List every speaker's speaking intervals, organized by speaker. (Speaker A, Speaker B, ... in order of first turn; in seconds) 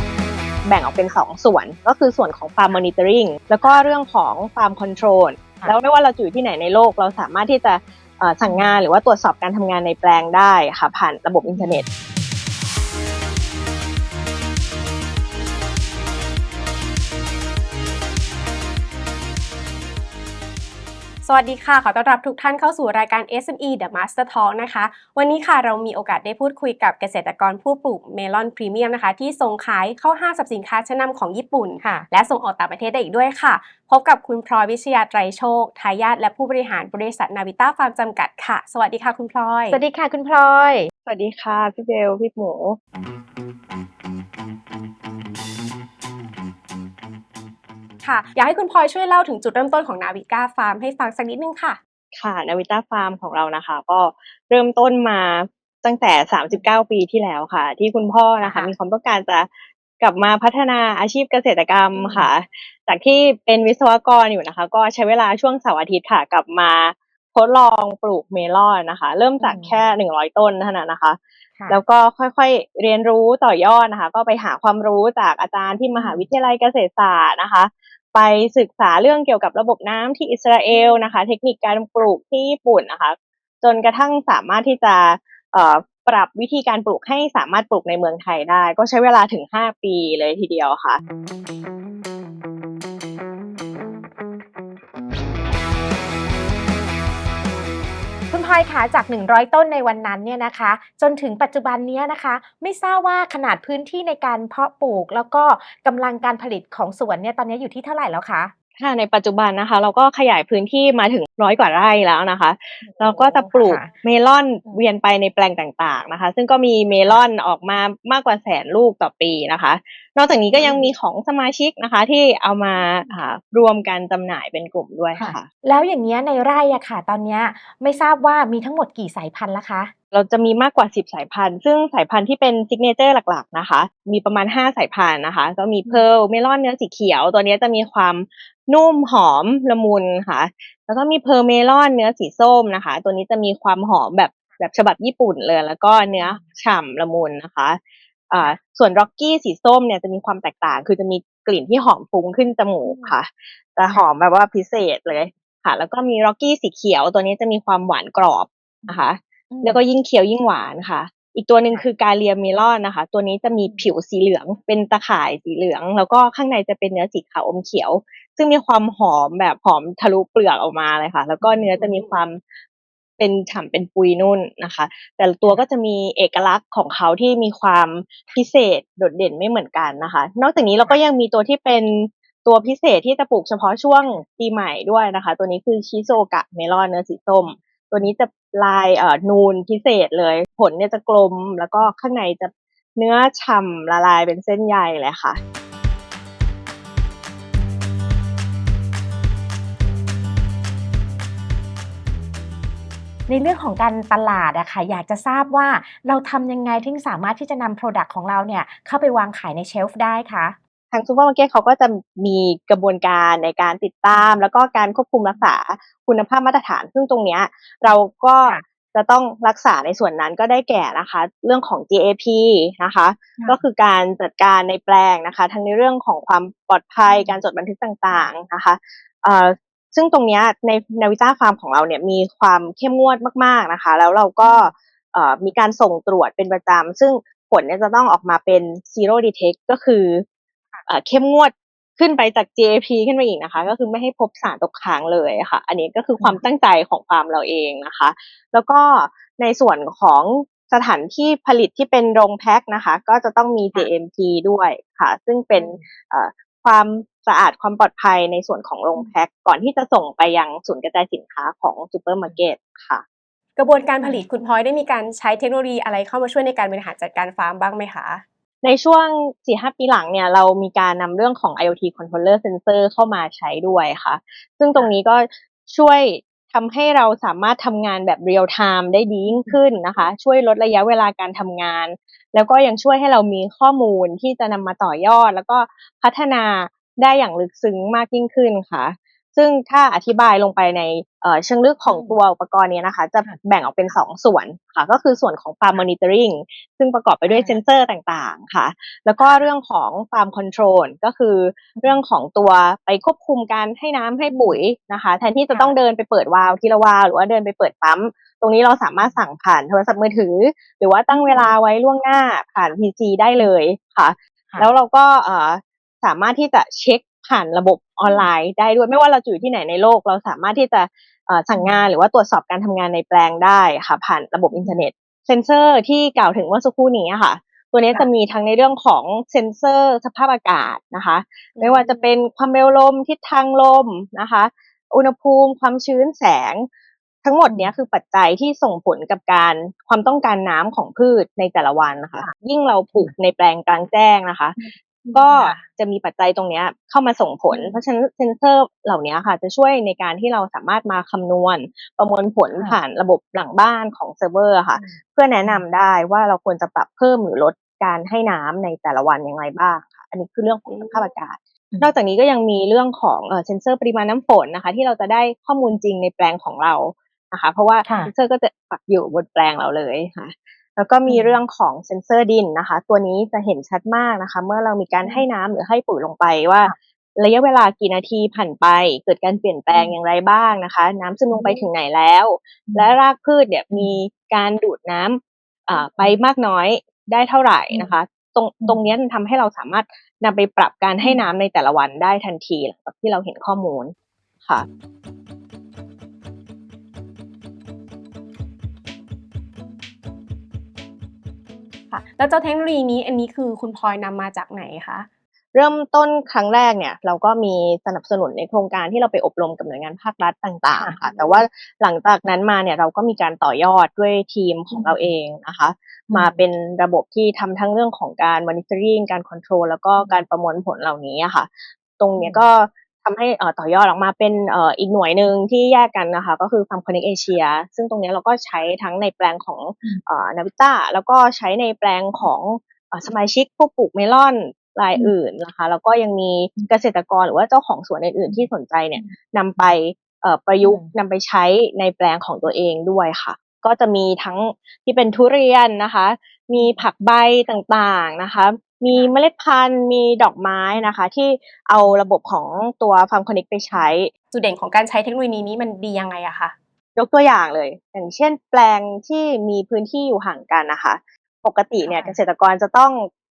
Speaker A: 0.7-11.8, 41.1-42.8, 52.1-91.0, 108.8-125.5, 130.1-147.8, 148.3-172.4, 173.2-195.4, 210.9-240.2, 240.9-263.0, 268.6-336.7, 337.2-344.6, 345.1-394.7, 405.5-454.1, 457.0-463.1
Speaker B: 11.5-11.8, 39.7-40.9, 58.4-58.8, 62.0-62.3, 69.4-69.8, 76.0-76.2, 80.7-81.1, 98.3-108.5, 112.8-113.9, 120.5-120.9, 122.8-123.1, 125.2-129.9, 146.2-146.4, 152.8-153.2, 159.5-159.8, 171.4-172.1, 203.3-210.6, 227.1-227.4, 234.4-234.7, 246.2-246.4, 255.6-255.9, 264.0-264.3, 279.3-279.6, 291.9-292.2, 297.3-297.6, 299.2-299.4, 304.3-304.6, 305.5-305.8, 311.1-311.5, 321.5-321.9, 324.5-324.8, 337.5-337.7, 344.6-345.6, 347.5-347.8, 354.8-355.6, 367.9-368.1, 371.1-371.4, 381.3-381.7, 382.7-382.9, 383.7-384.0, 385.8-386.2, 388.6-388.9, 410.8-411.4, 414.7-415.1, 416.1-416.4, 422.2-422.4, 438.3-439.8, 440.6-440.9, 461.9-462.2
Speaker C: 21.2-39.8, 48.0-51.8, 263.6-268.2, 331.6-331.9, 360.7-361.0, 401.9-405.1, 454.3-456.5